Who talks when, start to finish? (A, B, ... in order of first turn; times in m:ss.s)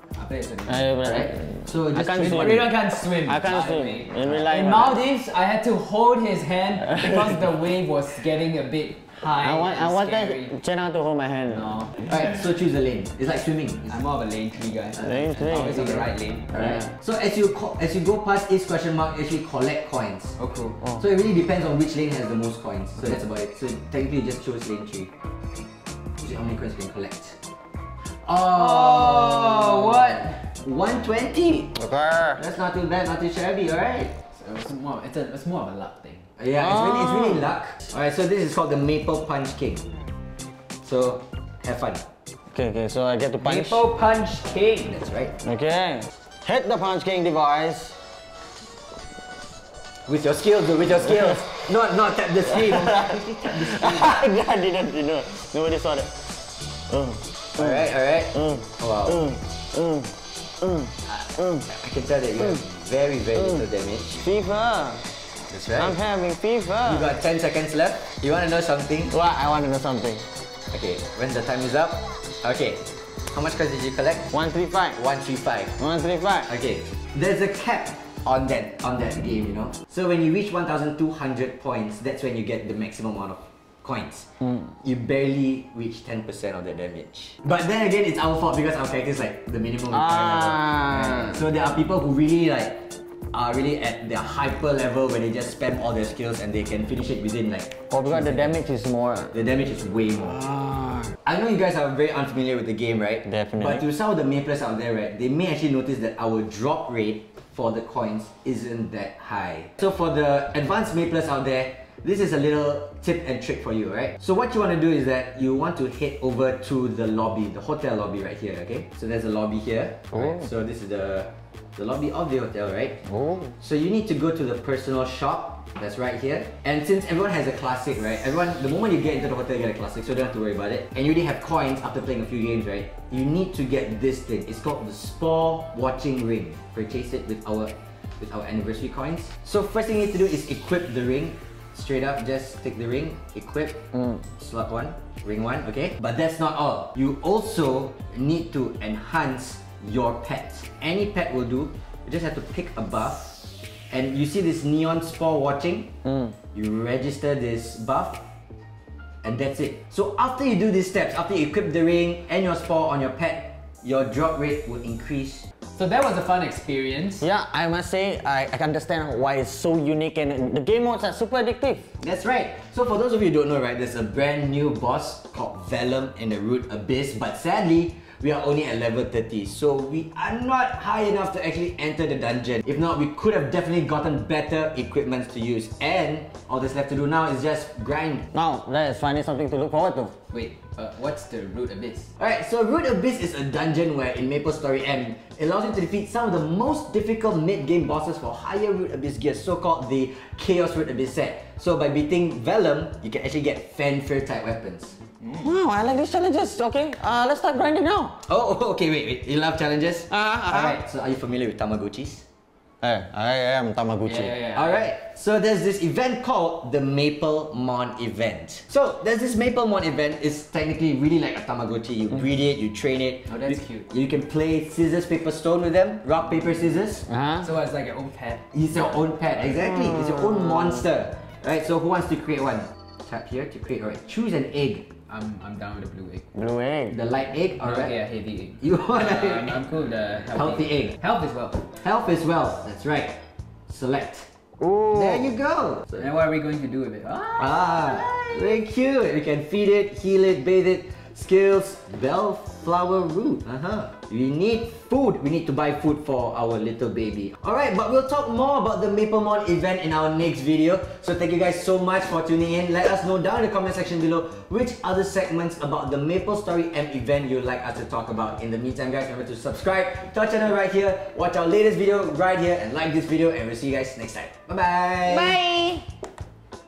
0:00.2-0:01.1 A
0:00.7-0:02.7 B
0:01.0-0:02.7 C
0:02.2-0:10.5 A
0:03.2-0:05.0 B
0:09.4-0:11.7 B
0:11.5-0:12.0 A
0:12.1-0:14.0 C
0:13.9-0:16.9 A
0:15.0-0:15.8 B
0:15.4-0:20.4 C
0:20.4-0:20.8 A
0:20.9-0:25.1 C
0:26.2-0:27.4 C
0:28.3-0:30.4 A
0:28.3-0:31.8 C
0:31.8-0:32.4 B
0:32.4-0:34.1 C
0:34.3-0:36.2 A
0:36.4-0:39.9 C
0:36.6-0:37.4 B
0:40.8-0:42.0 C
0:42.5-0:43.8 B
0:43.4-0:45.0 A
0:44.9-0:45.3 C
0:45.4-0:48.0 B
0:50.1-0:54.1 C
0:53.6-0:56.1 B
0:56.9-0:57.8 B
0:57.6-0:59.3 C
0:58.4-1:01.6 B
1:01.1-1:04.2 C
1:04.2-1:05.0 B
1:05.5-1:06.0 C
1:05.8-1:07.0 B
1:06.9-1:09.1 C
1:09.1-1:10.2 B
1:10.7-1:14.3 C
1:14.3-1:15.0 B
1:15.0-1:15.8 C
1:15.8-1:16.5 B
1:16.5-1:24.3 C
1:24.8-1:38.6 C
1:29.9-1:31.4 B
1:37.9-1:39.3 B
1:39.3-1:40.4 C
1:40.4-1:41.1 B
1:41.2-2:03.0 C
1:43.2-1:43.8 B
2:00.1-2:00.4 B
2:03.1-2:03.5 B
2:03.6-2:23.8 C
2:24.4-2:33.4 C
2:33.9-2:35.9 C
2:36.5-2:38.3 C
2:39.2-2:45.5 C
2:45.8-2:47.2 A
2:47.2-2:51.8 B
2:52.0-3:08.2 C
3:08.3-3:10.1 B
3:10.3-3:12.1 A
3:12.2-3:25.0 C
3:25.3-3:28.1 B
3:28.2-3:32.2 C
3:30.1-3:30.8 B
3:32.8-3:34.3 B
3:34.0-3:34.9 A
3:34.5-3:47.1 C
3:43.3-3:43.9 A
3:47.1-3:47.4 B
3:47.4-3:48.6 A
3:48.5-3:54.9 C
3:55.1-3:56.2 A
3:56.3-3:57.0 B
3:56.9-3:58.0 C
3:57.6-4:01.7 A
3:58.6-3:59.6 C
4:00.4-4:01.0 C
4:01.8-4:04.3 C
4:04.6-4:05.4 B
4:04.9-4:06.1 C
4:06.0-4:08.6 A
4:07.4-4:35.4 C
4:35.1-4:35.9 B